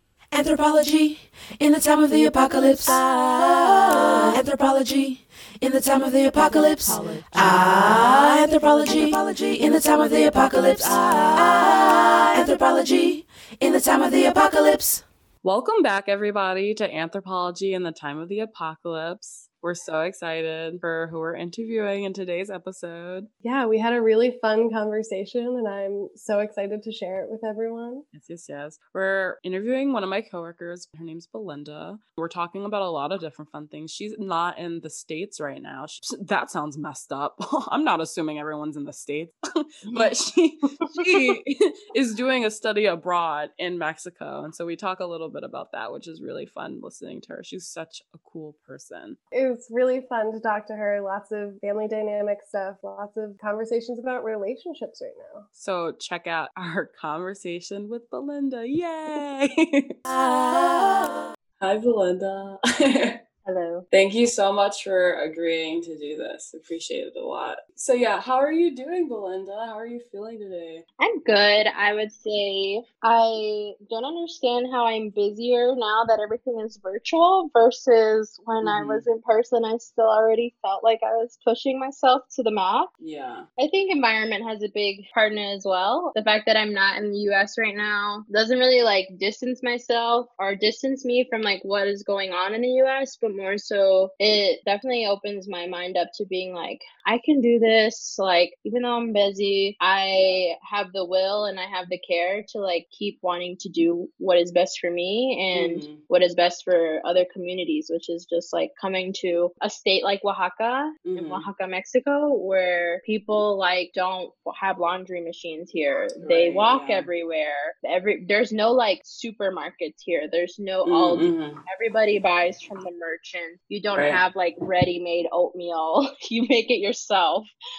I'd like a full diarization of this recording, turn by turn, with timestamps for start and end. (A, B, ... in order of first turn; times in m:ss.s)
0:00.3-0:15.0 A
0:15.4-0:23.3 B
0:23.4-0:28.0 C
0:28.1-0:49.2 B
0:49.3-0:55.4 C
0:55.6-1:00.0 B
1:00.3-1:01.0 A
1:01.6-1:03.2 B
1:03.4-1:03.8 D
1:03.9-1:10.8 B
1:11.0-1:22.9 D
1:18.6-1:19.0 B
1:23.0-1:23.5 B
1:23.6-2:07.5 D
1:45.5-1:46.0 B
1:51.0-1:51.4 B
1:56.2-1:57.1 B
2:00.8-2:01.6 B
2:03.9-2:04.2 B